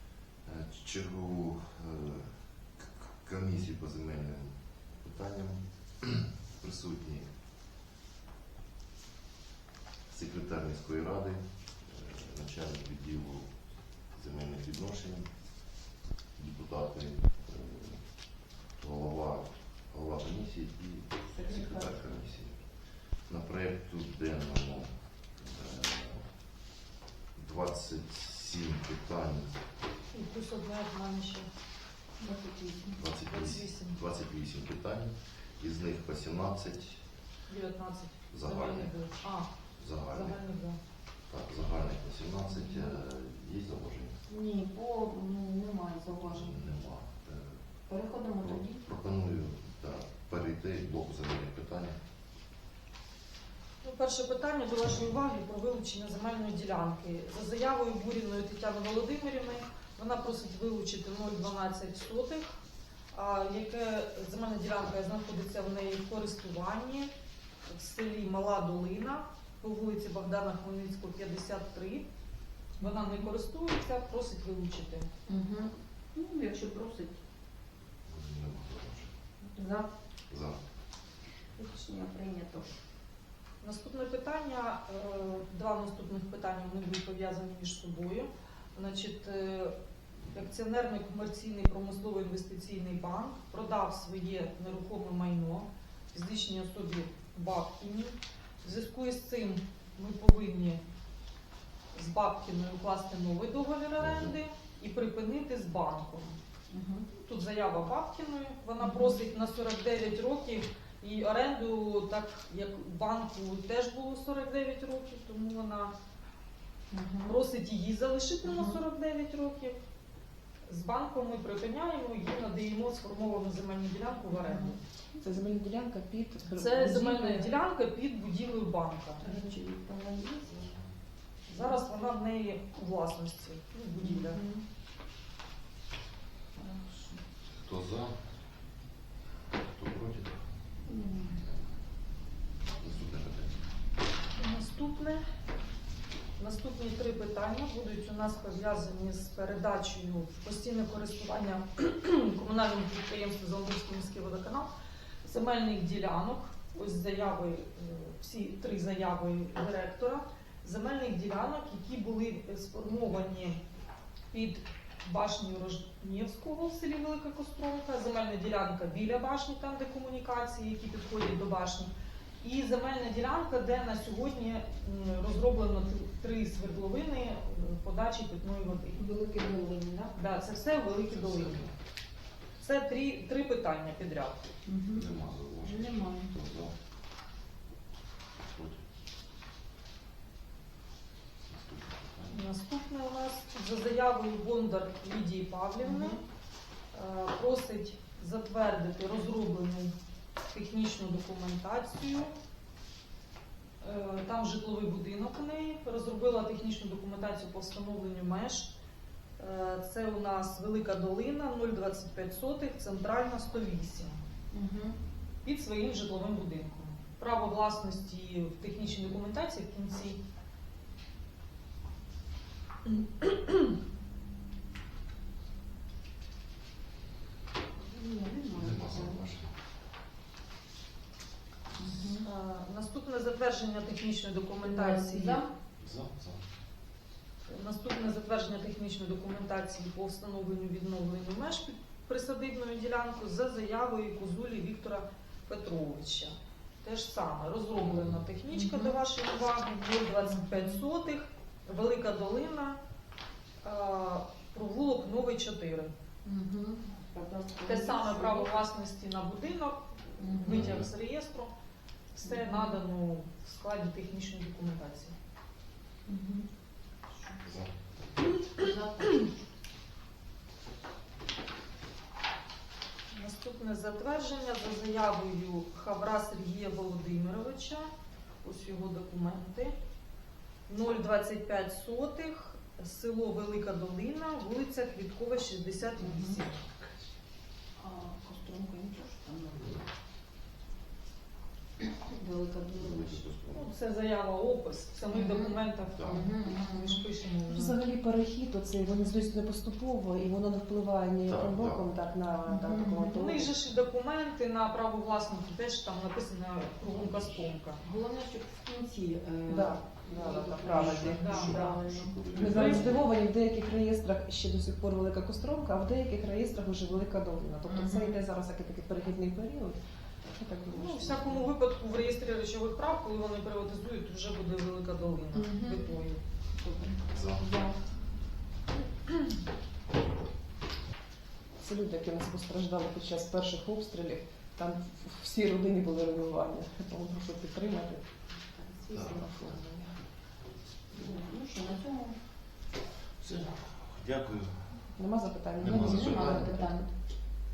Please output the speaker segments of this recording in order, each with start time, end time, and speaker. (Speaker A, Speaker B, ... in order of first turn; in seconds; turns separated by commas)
Speaker A: 0.5-7.3, Speaker A: 10.1-15.4, Speaker A: 16.4-22.7, Speaker B: 21.3-22.0, Speaker A: 23.2-26.3, Speaker A: 27.4-29.6, Speaker C: 30.1-31.5, Speaker B: 32.2-33.0, Speaker A: 33.0-37.0, Speaker C: 33.3-34.0, Speaker C: 37.5-39.5, Speaker A: 38.3-39.0, Speaker A: 39.8-40.4, Speaker C: 40.1-40.8, Speaker A: 41.3-44.2, Speaker B: 42.5-43.0, Speaker B: 44.3-46.5, Speaker A: 46.3-47.6, Speaker B: 47.9-48.9, Speaker A: 48.4-52.0, Speaker C: 53.8-62.5, Speaker C: 63.1-67.1, Speaker C: 67.7-72.1, Speaker C: 72.8-75.1, Speaker B: 75.3-77.2, Speaker A: 78.1-79.1, Speaker B: 79.5-79.9, Speaker A: 80.3-80.6, Speaker B: 81.5-82.7, Speaker C: 83.6-89.7, Speaker C: 90.3-100.8, Speaker C: 101.9-106.4, Speaker A: 104.0-104.3, Speaker B: 106.7-107.1, Speaker C: 107.1-115.9, Speaker B: 108.8-109.2, Speaker B: 116.9-117.4, Speaker C: 117.2-119.8, Speaker B: 118.5-118.8, Speaker C: 120.7-124.8, Speaker B: 124.3-124.8, Speaker D: 125.2-127.5, Speaker C: 126.5-129.2, Speaker B: 129.2-130.5, Speaker A: 130.4-130.8, Speaker C: 131.5-134.4, Speaker B: 131.5-131.8, Speaker B: 133.9-134.6, Speaker B: 136.6-137.2, Speaker A: 137.6-138.2, Speaker A: 139.6-140.4, Speaker B: 140.9-141.4, Speaker A: 142.8-143.6, Speaker C: 144.4-145.2, Speaker C: 146.4-154.7, Speaker C: 155.2-163.6, Speaker C: 164.3-171.9, Speaker C: 172.4-179.1, Speaker B: 178.9-180.2, Speaker C: 180.1-181.6, Speaker A: 181.1-181.8, Speaker C: 182.6-184.4, Speaker B: 184.7-185.1, Speaker A: 184.9-186.7, Speaker B: 185.6-186.3, Speaker A: 188.4-188.8, Speaker A: 191.5-192.5, Speaker C: 192.3-196.2, Speaker B: 195.8-196.2, Speaker C: 196.9-199.9, Speaker C: 200.5-202.3, Speaker C: 203.8-208.7, Speaker C: 209.4-214.2, Speaker B: 214.5-215.0, Speaker C: 215.4-220.2, Speaker C: 222.9-223.7, Speaker B: 227.8-229.3, Speaker A: 228.5-229.5, Speaker B: 231.8-232.2, Speaker C: 232.2-235.4, Speaker B: 234.6-235.5, Speaker A: 235.8-236.4, Speaker C: 237.5-252.8, Speaker A: 247.9-248.2, Speaker B: 248.5-249.0, Speaker B: 250.2-250.8, Speaker C: 253.6-255.9, Speaker B: 256.2-258.6, Speaker C: 257.6-261.5, Speaker B: 260.2-260.7, Speaker A: 260.4-260.9, Speaker C: 262.1-265.1, Speaker B: 262.3-262.8, Speaker B: 266.1-266.5, Speaker A: 267.4-267.7, Speaker B: 268.5-269.4, Speaker C: 273.1-277.9, Speaker C: 278.4-279.8, Speaker C: 280.7-286.6, Speaker B: 286.0-286.4, Speaker B: 287.8-289.7, Speaker A: 289.5-289.8, Speaker B: 292.0-293.2, Speaker A: 292.7-293.7, Speaker C: 293.5-297.8, Speaker B: 295.1-297.0, Speaker A: 295.9-296.3, Speaker D: 297.5-303.5, Speaker A: 301.3-301.9, Speaker B: 302.4-303.2, Speaker C: 303.1-307.8, Speaker A: 306.9-307.5, Speaker B: 307.8-312.8, Speaker D: 309.5-311.6, Speaker A: 310.2-313.0, Speaker C: 310.7-311.8, Speaker D: 312.3-321.5, Speaker C: 312.4-313.0, Speaker B: 317.7-318.2, Speaker C: 320.7-326.2, Speaker B: 325.3-326.0, Speaker B: 326.5-327.8, Speaker A: 327.1-327.4, Speaker D: 331.6-338.1, Speaker B: 338.4-339.2, Speaker A: 338.9-339.6, Speaker D: 338.9-340.0, Speaker B: 340.9-342.2, Speaker A: 343.2-344.9, Speaker D: 344.9-346.9, Speaker A: 345.6-346.6, Speaker B: 345.7-346.9